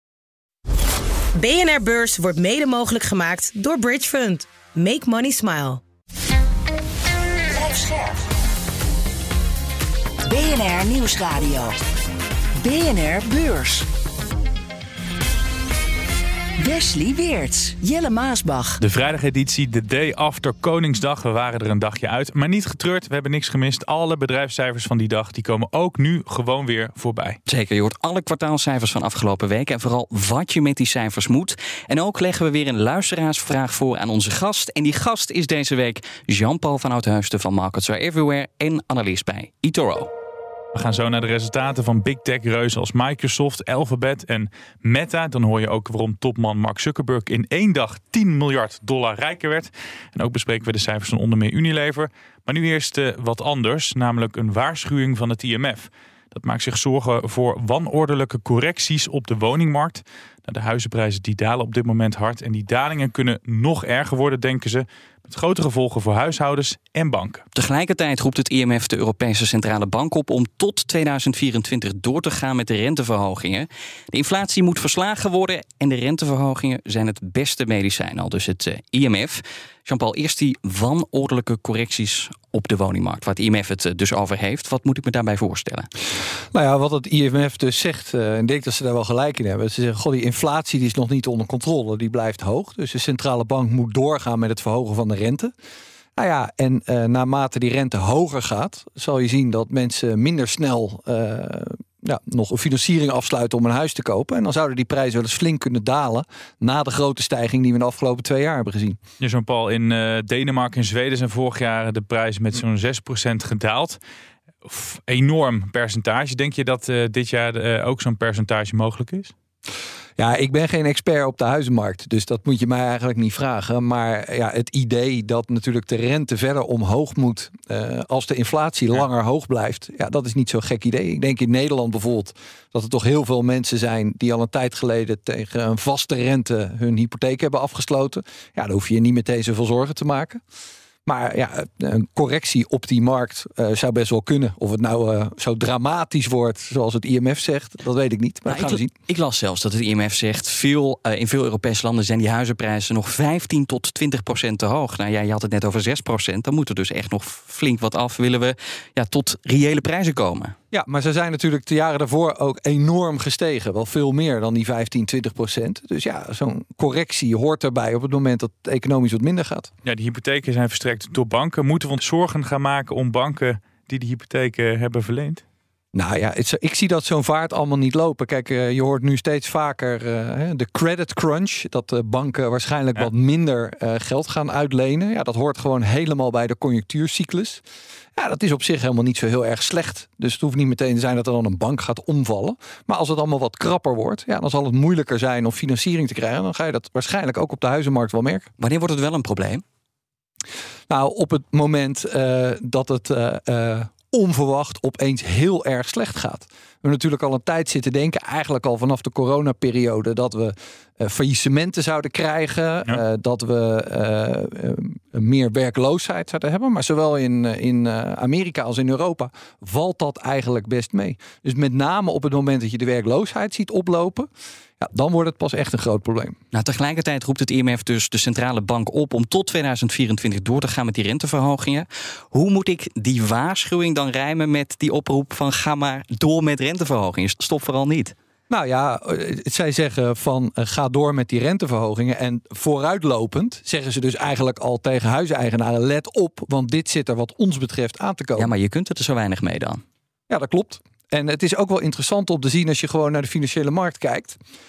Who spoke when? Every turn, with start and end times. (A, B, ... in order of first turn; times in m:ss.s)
0:01.4-0:05.8 A
0:07.5-0:08.2 B
0:10.2-0:11.8 B
0:12.6-0:13.9 B
0:16.6-0:18.8 B
0:18.8-0:27.4 C
0:27.5-0:40.1 D
0:40.7-1:07.4 C
1:07.5-1:25.9 D
1:26.5-1:35.5 E
1:36.2-1:49.0 E
1:49.2-1:54.0 C
1:54.6-1:59.3 C
2:00.2-2:20.4 E
2:21.0-2:28.9 E
2:28.5-2:40.5 D
2:40.7-2:49.7 E
2:49.8-2:55.4 C
2:55.9-3:07.6 E
3:08.1-3:18.5 E
3:18.6-3:19.6 D
3:20.9-3:44.3 E
3:44.8-3:46.4 E
3:46.5-3:58.1 D
3:58.5-4:08.5 E
4:08.4-4:09.8 D
4:10.3-4:14.4 E